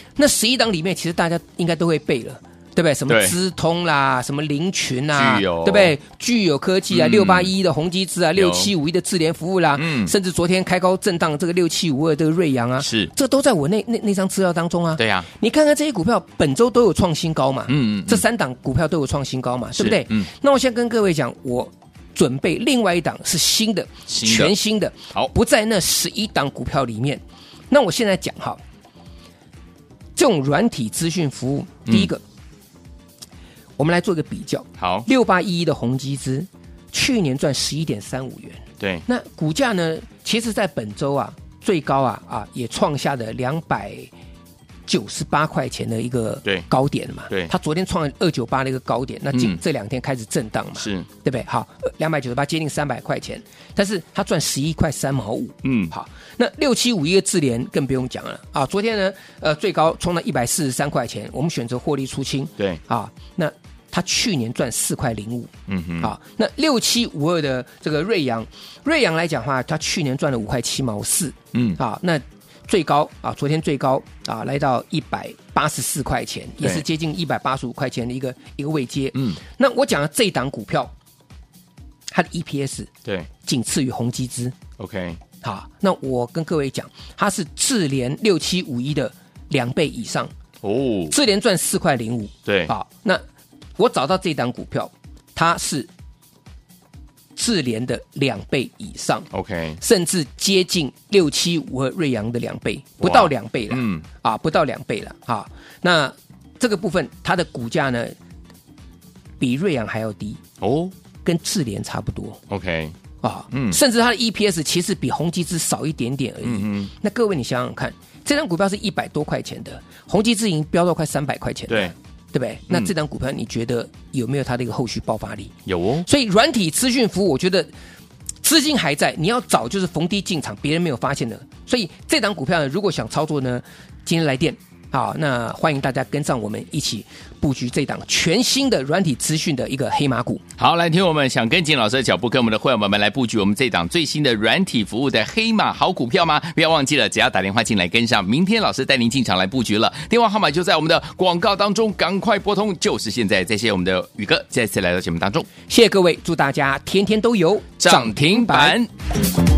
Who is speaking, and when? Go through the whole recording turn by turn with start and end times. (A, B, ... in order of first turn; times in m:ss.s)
0:00.2-0:28.6 A
0:03.1-0:03.3 B
0:05.1-0:06.0 B
0:06.9-0:07.5 B
0:08.3-0:08.7 B
0:09.8-0:10.1 B
0:12.8-0:13.1 B
0:15.0-0:15.3 B
0:17.7-0:18.2 B
0:19.8-0:20.3 B
0:24.1-0:24.5 B
0:30.1-0:32.2 A
0:33.8-0:44.1 A
0:34.8-0:35.0 B
0:44.9-1:20.9 A
0:49.3-0:49.6 B
0:50.8-0:51.1 B
0:55.6-0:55.9 B
1:05.7-1:06.1 B
1:11.5-1:11.8 B
1:22.1-1:22.9 A
1:23.4-1:24.6 A
1:24.8-1:25.2 B
1:25.4-1:30.3 A
1:30.6-1:31.1 B
1:31.1-1:33.2 A
1:32.4-1:32.7 B
1:33.8-1:35.9 A
1:37.3-1:39.3 A
1:39.3-1:39.8 B
1:39.8-1:48.2 A
1:43.0-1:44.0 B
1:49.4-1:50.4 A
1:50.6-1:50.9 B
1:51.2-1:52.4 A
1:52.5-1:53.0 B
1:53.2-2:07.7 A
1:53.5-1:53.8 B
1:56.4-1:56.9 B
2:01.7-2:01.9 B
2:05.6-2:06.0 B
2:08.4-2:20.4 A
2:20.6-2:35.5 B
2:35.7-2:38.8 A
2:37.8-2:38.9 B